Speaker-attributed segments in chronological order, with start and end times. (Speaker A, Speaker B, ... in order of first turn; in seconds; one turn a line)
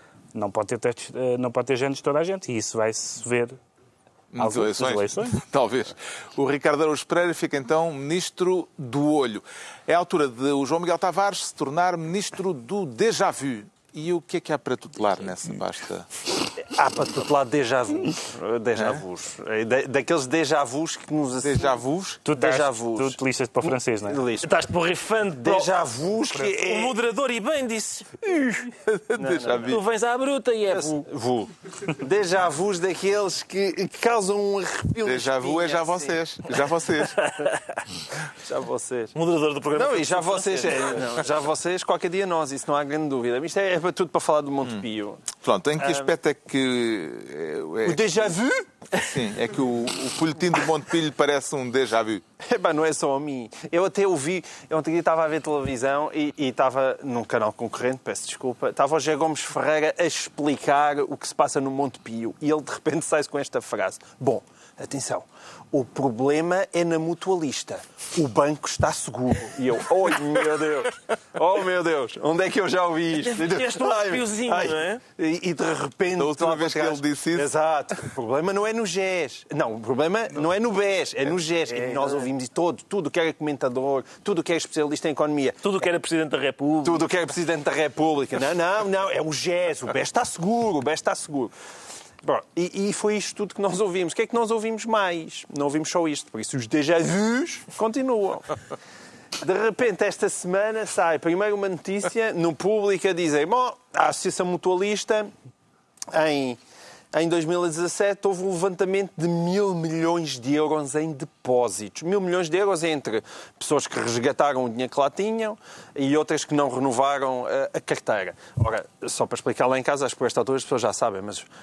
Speaker A: 0.3-3.6
Speaker B: 4.3-16.1
Speaker A: 4.4-5.4
Speaker C: 16.6-21.8
Speaker B: 21.4-22.2
Speaker A: 22.2-24.2
Speaker C: 22.3-24.5
Speaker D: 24.4-25.7
Speaker C: 25.4-27.0
Speaker D: 26.5-28.6
Speaker B: 28.8-29.8
Speaker C: 29.2-29.8
Speaker D: 29.6-31.0
Speaker C: 30.7-36.2
Speaker B: 35.0-37.3
Speaker D: 37.2-37.8
Speaker C: 38.4-39.1
Speaker D: 39.1-41.1
Speaker C: 39.7-45.2
Speaker B: 45.4-48.3
Speaker C: 45.8-46.1
Speaker C: 47.8-49.2
Speaker B: 48.9-52.2
Speaker C: 52.4-85.6
Speaker D: 73.2-75.0
Speaker B: 76.2-77.5
Speaker D: 85.6-87.0
Speaker C: 86.8-91.5
Speaker C: 92.2-98.6
Speaker C: 99.4-105.3
Speaker C: 106.1-106.6
Speaker C: 107.1-121.5